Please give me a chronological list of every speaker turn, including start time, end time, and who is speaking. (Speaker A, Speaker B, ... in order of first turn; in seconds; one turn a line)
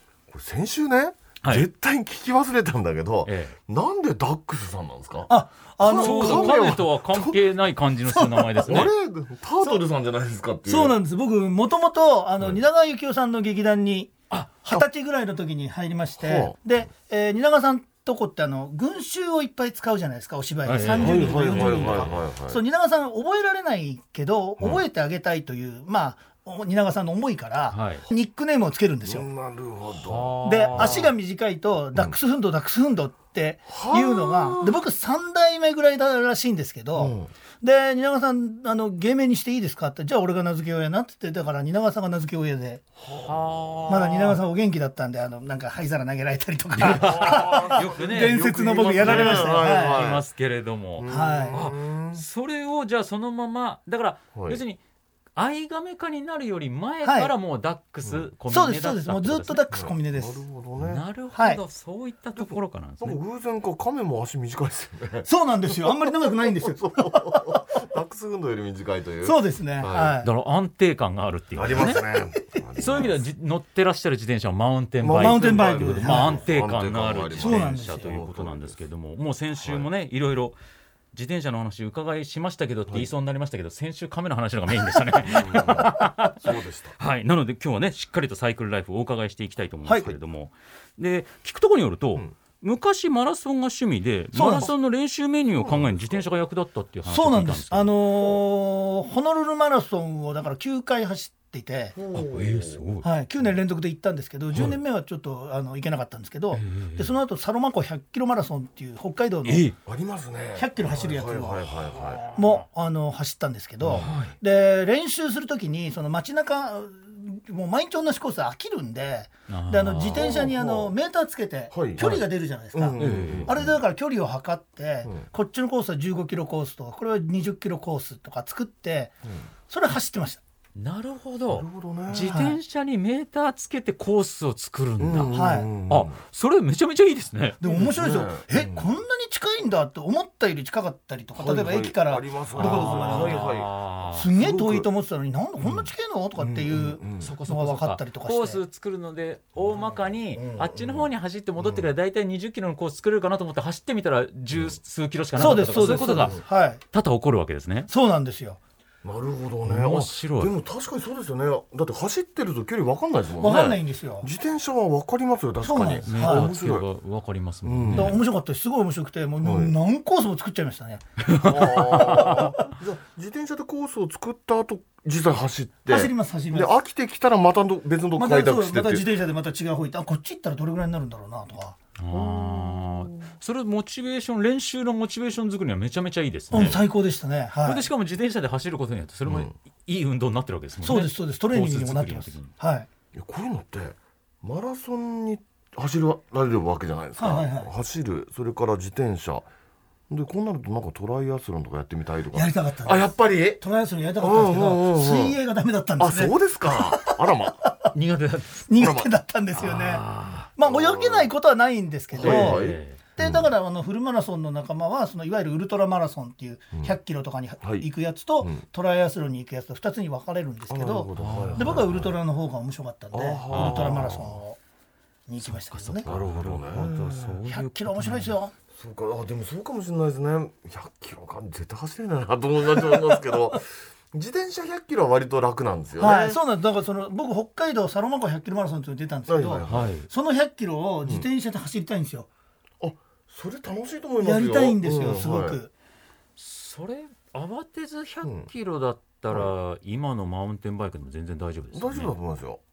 Speaker A: 0.3-7.4
Speaker B: 3.2-3.5
Speaker C: 5.3-6.8
Speaker B: 5.9-8.9
Speaker C: 8.2-8.8
Speaker A: 8.6-10.9
Speaker C: 10.7-29.3
Speaker A: 16.2-16.7
Speaker B: 20.6-22.2
Speaker A: 20.8-22.6
Speaker B: 27.7-28.1
Speaker A: 29.0-31.1
Speaker B: 29.9-31.1
Speaker C: 30.4-42.8
Speaker A: 33.7-34.8
Speaker A: 36.9-37.3
Speaker A: 43.0-43.8
Speaker B: 43.2-44.4
Speaker C: 43.9-50.0
Speaker B: 46.7-54.8
Speaker A: 46.8-50.2
Speaker A: 51.0-52.2
Speaker C: 51.1-51.6
Speaker A: 54.3-54.6
Speaker B: 55.4-59.6
Speaker C: 57.0-57.3
Speaker C: 58.5-60.4
Speaker A: 59.7-61.0
Speaker B: 60.8-63.2
Speaker C: 61.3-61.6
Speaker A: 62.4-70.2
Speaker C: 65.2-67.6
Speaker C: 69.2-70.3
Speaker B: 70.2-72.0
Speaker A: 71.5-73.2
Speaker B: 72.8-80.6
Speaker A: 75.0-78.8
Speaker C: 75.2-76.4
Speaker C: 77.3-78.2
Speaker A: 79.6-79.9
Speaker B: 81.1-98.0
Speaker A: 85.2-87.0
Speaker C: 94.3-94.7
Speaker A: 95.5-96.3
Speaker C: 97.1-102.0
Speaker A: 101.9-102.8
Speaker B: 102.1-103.0
Speaker C: 103.0-109.7
Speaker B: 106.5-107.1
Speaker B: 109.4-109.7
Speaker A: 109.8-112.3
Speaker C: 110.5-111.7
Speaker C: 112.3-129.1
Speaker A: 113.8-114.1
Speaker B: 113.9-114.3
Speaker B: 119.5-120.3
Speaker A: 120.1-120.9
Speaker A: 121.7-123.8
Speaker B: 123.0-123.5
Speaker C: 129.7-130.4
Speaker B: 130.8-135.3
Speaker A: 131.5-132.4
Speaker C: 132.3-132.6
Speaker A: 135.0-136.2
Speaker C: 135.3-135.7
Speaker B: 135.9-137.6
Speaker C: 137.6-143.4
Speaker A: 137.6-138.9
Speaker A: 141.3-143.7
Speaker B: 142.6-144.3
Speaker C: 144.1-148.6
Speaker A: 144.3-144.9
Speaker A: 145.6-147.3
Speaker B: 147.2-157.9
Speaker A: 149.6-151.9
Speaker A: 154.5-154.8
Speaker A: 155.3-156.4
Speaker C: 155.4-156.8
Speaker C: 157.9-158.6
Speaker A: 159.0-166.9
Speaker B: 159.6-160.5
Speaker C: 163.4-164.3
Speaker C: 165.6-166.5
Speaker B: 166.1-168.2
Speaker A: 167.6-168.2
Speaker C: 167.9-172.6
Speaker A: 169.4-169.7
Speaker B: 171.2-172.5
Speaker A: 171.4-179.1
Speaker C: 175.9-176.7
Speaker C: 178.2-181.8
Speaker B: 182.0-186.8
Speaker A: 182.1-183.3
Speaker C: 186.5-187.9
Speaker B: 187.6-192.5
Speaker A: 189.2-189.5
Speaker C: 190.8-192.9
Speaker A: 193.1-199.5
Speaker C: 197.2-197.7
Speaker A: 200.1-203.6
Speaker C: 202.3-207.9
Speaker A: 204.2-205.4
Speaker A: 206.0-207.6
Speaker B: 207.9-208.7
Speaker C: 208.7-210.0
Speaker A: 208.8-209.1
Speaker B: 209.6-210.5
Speaker C: 210.6-224.6
Speaker A: 210.6-211.3
Speaker A: 212.1-213.5
Speaker B: 212.2-213.0
Speaker A: 217.6-217.9
Speaker A: 220.7-222.2
Speaker B: 221.2-222.1
Speaker A: 223.1-224.4
Speaker B: 223.5-224.1
Speaker C: 225.3-226.1
Speaker B: 225.4-228.3
Speaker A: 226.1-227.4
Speaker C: 227.5-228.5
Speaker A: 228.7-236.4
Speaker C: 236.0-242.3
Speaker A: 239.3-239.9
Speaker B: 239.7-240.1
Speaker A: 242.8-245.6
Speaker C: 244.2-245.7
Speaker B: 246.4-252.1
Speaker A: 248.2-248.5
Speaker A: 251.7-252.6